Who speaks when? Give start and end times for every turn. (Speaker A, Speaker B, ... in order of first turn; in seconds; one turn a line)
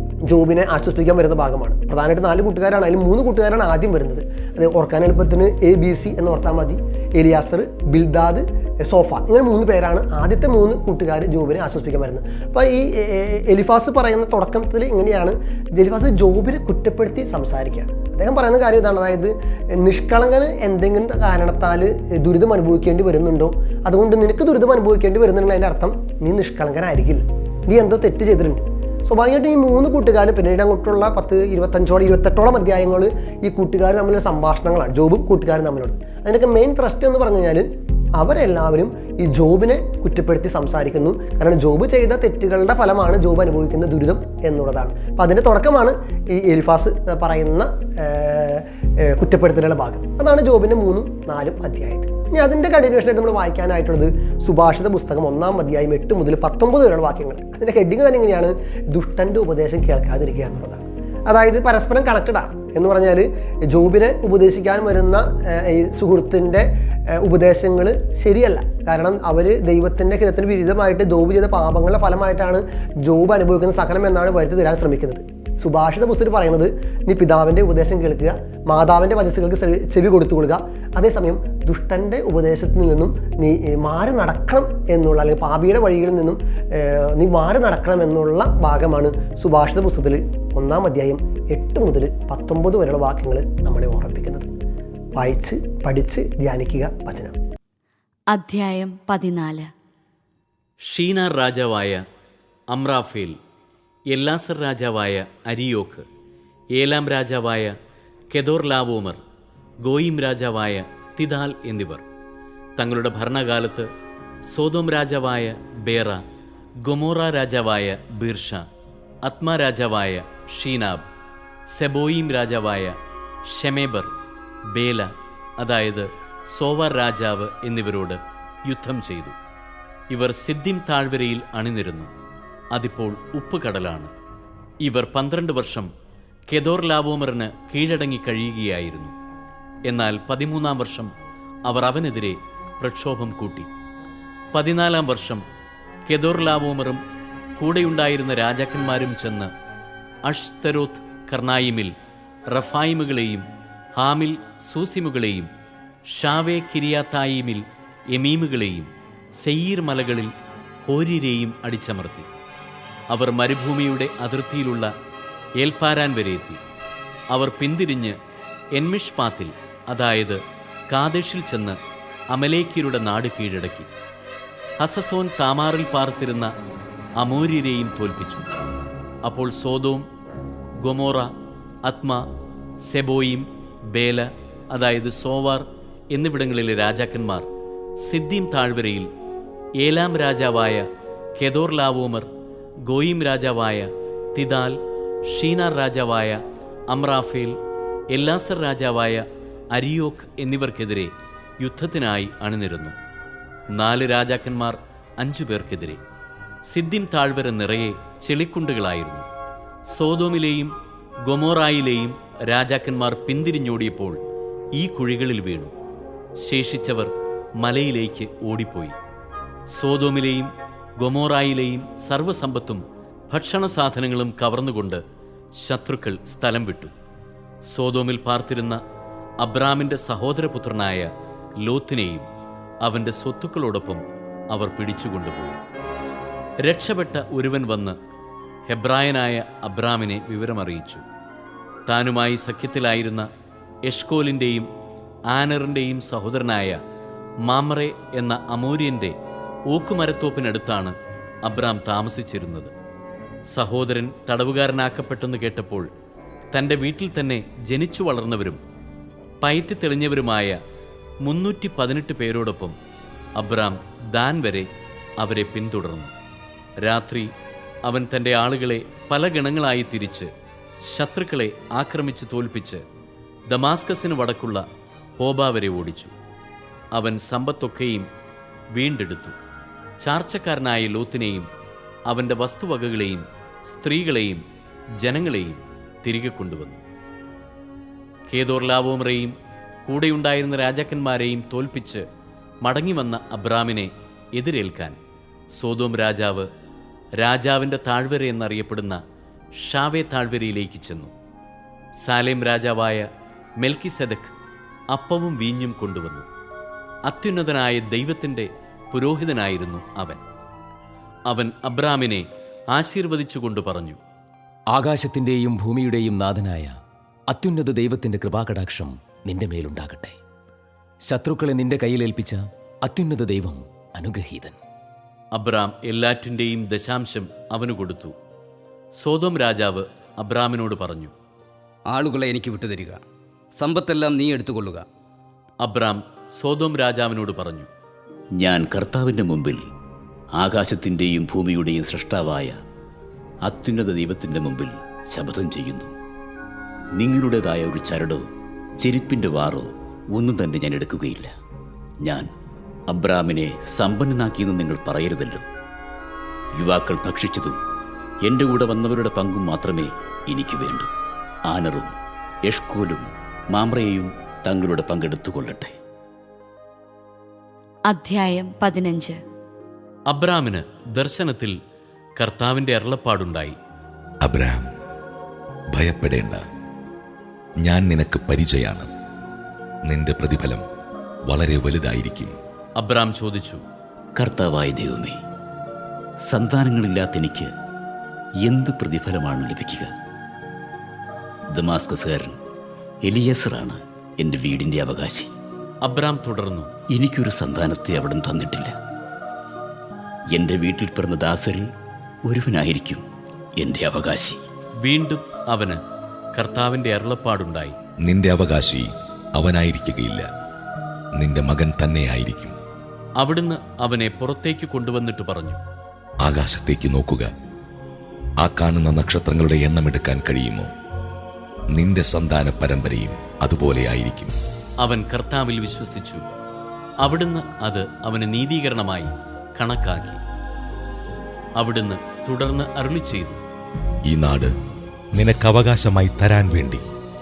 Speaker A: 0.3-66.7
Speaker A: 67.2-94.5
Speaker A: 95.2-97.4
Speaker B: 98.3-99.7
Speaker C: 100.9-102.0
Speaker C: 102.7-103.3
Speaker C: 104.1-106.0
Speaker C: 106.8-107.7
Speaker C: 108.3-109.2
Speaker C: 109.8-112.0
Speaker C: 112.8-113.8
Speaker C: 114.5-116.2
Speaker C: 116.8-118.6
Speaker C: 119.2-121.0
Speaker C: 121.7-122.9
Speaker C: 123.5-124.1
Speaker C: 124.7-125.1
Speaker C: 125.6-129.3
Speaker C: 130.1-132.1
Speaker C: 132.7-134.1
Speaker C: 134.8-135.9
Speaker C: 136.5-139.1
Speaker C: 139.9-141.1
Speaker C: 141.7-143.7
Speaker C: 144.5-145.4
Speaker C: 146.1-147.0
Speaker C: 147.6-149.5
Speaker C: 150.2-151.9
Speaker C: 152.5-153.4
Speaker C: 153.9-155.5
Speaker C: 156.1-157.6
Speaker C: 158.1-158.9
Speaker C: 159.4-160.3
Speaker C: 160.8-162.3
Speaker C: 163.1-164.9
Speaker C: 165.6-166.6
Speaker C: 167.3-168.1
Speaker C: 168.8-170.4
Speaker C: 170.9-171.8
Speaker C: 172.3-173.9
Speaker C: 174.8-176.5
Speaker C: 177.2-178.5
Speaker C: 179.2-180.0
Speaker C: 180.8-181.3
Speaker C: 181.8-182.2
Speaker C: 182.9-187.4
Speaker C: 188.0-189.1
Speaker C: 189.8-190.8
Speaker C: 191.4-192.3
Speaker C: 192.9-194.8
Speaker C: 195.3-196.4
Speaker C: 196.9-197.5
Speaker C: 198.1-201.1
Speaker C: 201.6-202.9
Speaker C: 203.7-206.0
Speaker C: 206.7-209.3
Speaker C: 209.9-210.7
Speaker C: 211.3-214.2
Speaker C: 214.8-215.7
Speaker C: 216.4-218.9
Speaker C: 219.7-225.0
Speaker C: 225.6-226.9
Speaker C: 227.7-228.8
Speaker C: 229.4-231.1
Speaker C: 231.7-232.3
Speaker C: 232.8-234.0
Speaker C: 234.5-235.6
Speaker C: 236.7-237.9
Speaker C: 238.7-241.0
Speaker C: 241.9-243.3
Speaker C: 243.9-244.7
Speaker C: 245.3-246.8
Speaker C: 247.5-249.1
Speaker C: 249.7-250.9
Speaker C: 251.4-252.7
Speaker C: 253.5-255.8
Speaker C: 256.5-258.6
Speaker C: 259.4-260.6
Speaker C: 261.2-262.7
Speaker C: 263.4-264.7
Speaker C: 265.2-266.1
Speaker C: 266.8-267.3
Speaker C: 267.9-270.3
Speaker C: 270.9-272.8
Speaker C: 273.5-274.6
Speaker C: 275.2-276.1
Speaker C: 276.9-278.1
Speaker C: 278.8-279.3
Speaker C: 280.0-281.5
Speaker C: 282.1-284.4
Speaker C: 285.0-286.8
Speaker C: 288.3-289.3
Speaker C: 289.9-292.0
Speaker C: 292.6-294.9
Speaker C: 295.6-296.4
Speaker C: 297.2-299.0
Speaker C: 299.6-301.1
Speaker C: 302.0-303.0
Speaker C: 303.6-304.3
Speaker C: 304.9-306.2
Speaker C: 307.1-310.2
Speaker C: 311.3-314.0
Speaker D: 314.7-316.7
Speaker D: 317.3-320.2
Speaker D: 321.1-324.6
Speaker C: 325.3-328.1
Speaker C: 329.0-331.1
Speaker E: 331.9-333.0
Speaker E: 333.6-334.9
Speaker C: 335.6-337.7
Speaker F: 338.4-339.6
Speaker F: 340.4-342.6
Speaker F: 343.4-345.9
Speaker F: 347.0-348.2
Speaker F: 348.8-351.3
Speaker F: 352.9-355.4
Speaker F: 356.6-357.6
Speaker F: 358.3-360.9
Speaker F: 361.5-361.9
Speaker F: 362.5-365.7
Speaker B: 367.9-369.2
Speaker C: 370.1-371.5
Speaker C: 372.2-373.6
Speaker G: 374.2-374.6
Speaker G: 375.7-376.4
Speaker G: 377.6-378.9
Speaker G: 379.9-380.6
Speaker G: 381.3-382.3
Speaker C: 382.8-383.6
Speaker F: 384.2-385.2
Speaker F: 386.3-387.5
Speaker F: 388.4-389.9
Speaker F: 391.5-392.4
Speaker F: 393.1-395.3
Speaker C: 395.8-396.7
Speaker F: 396.9-398.8
Speaker F: 400.3-401.7
Speaker F: 402.3-403.0
Speaker F: 403.6-404.4
Speaker C: 404.8-405.8
Speaker C: 406.3-407.8
Speaker G: 408.0-410.3
Speaker G: 411.1-412.6
Speaker C: 413.2-415.6
Speaker G: 416.2-417.3
Speaker G: 418.4-420.7
Speaker G: 421.8-424.3
Speaker C: 424.8-426.2
Speaker C: 427.0-430.2
Speaker C: 431.6-433.4
Speaker G: 434.1-434.5
Speaker G: 435.1-436.8